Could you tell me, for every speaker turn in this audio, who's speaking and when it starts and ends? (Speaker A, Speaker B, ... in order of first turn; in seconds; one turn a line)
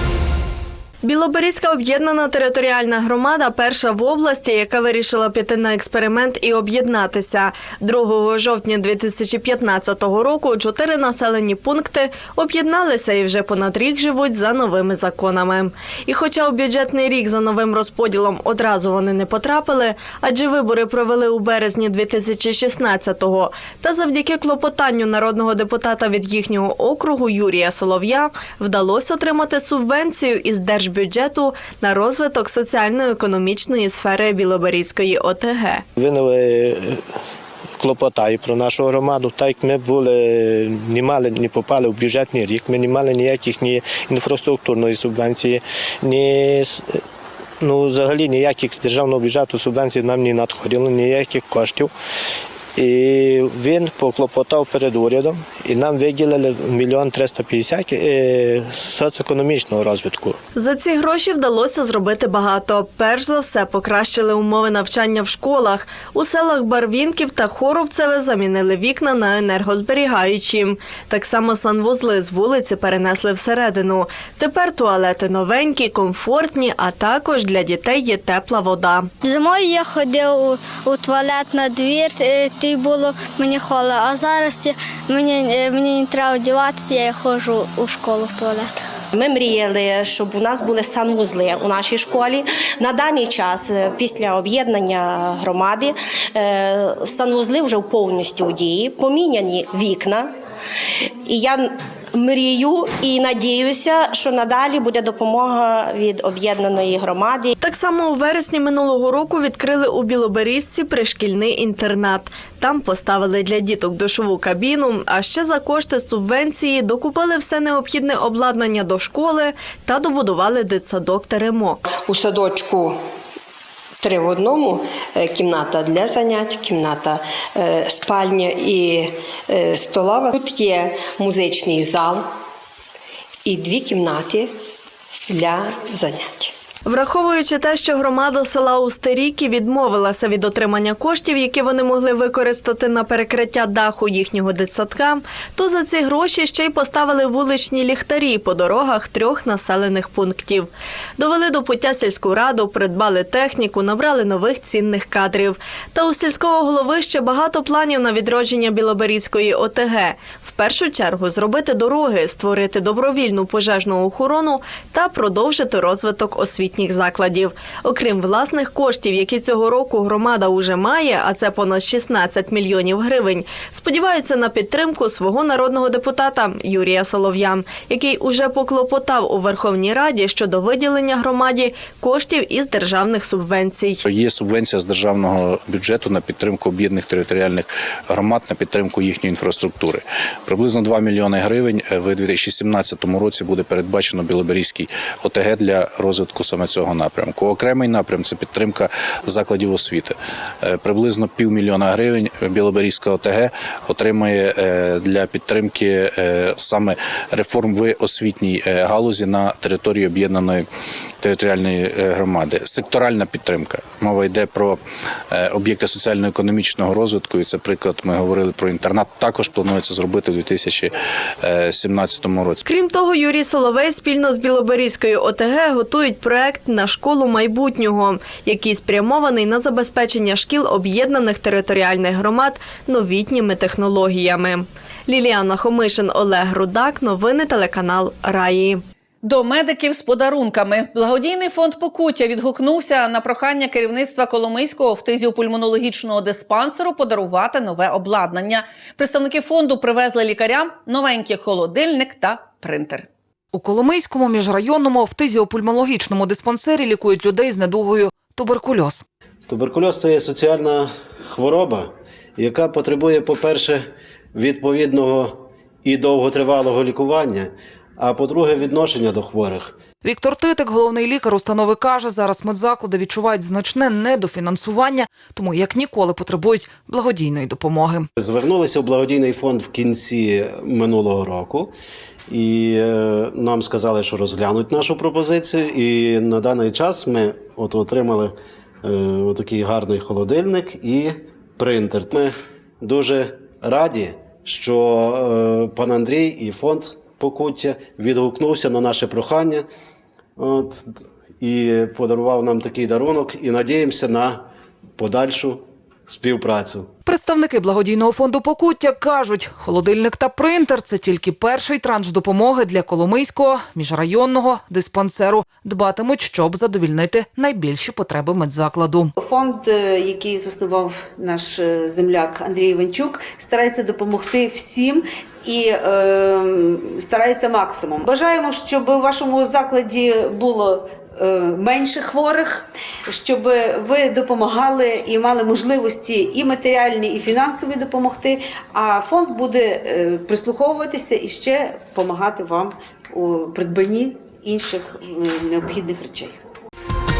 Speaker A: 1.0-35.8
Speaker B: 36.0-37.0
Speaker B: 37.8-47.0
Speaker B: 47.6-51.9
Speaker B: 52.7-60.4
Speaker A: 60.5-79.1
Speaker C: 79.2-88.8
Speaker D: 89.1-100.3
Speaker D: 101.2-107.5
Speaker A: 107.6-121.8
Speaker E: 122.0-123.0
Speaker E: 124.0-132.2
Speaker E: 133.4-134.5
Speaker E: 135.3-136.5
Speaker A: 136.8-184.0
Speaker F: 184.0-210.7
Speaker F: 211.2-222.6
Speaker A: 222.6-238.8
Speaker G: 239.2-253.1
Speaker H: 253.5-259.0
Speaker I: 259.5-269.8
Speaker H: 270.0-278.1
Speaker I: 278.2-281.7
Speaker I: 282.3-299.6
Speaker I: 300.4-304.4
Speaker I: 305.0-306.9
Speaker H: 307.0-319.1
Speaker J: 319.2-346.4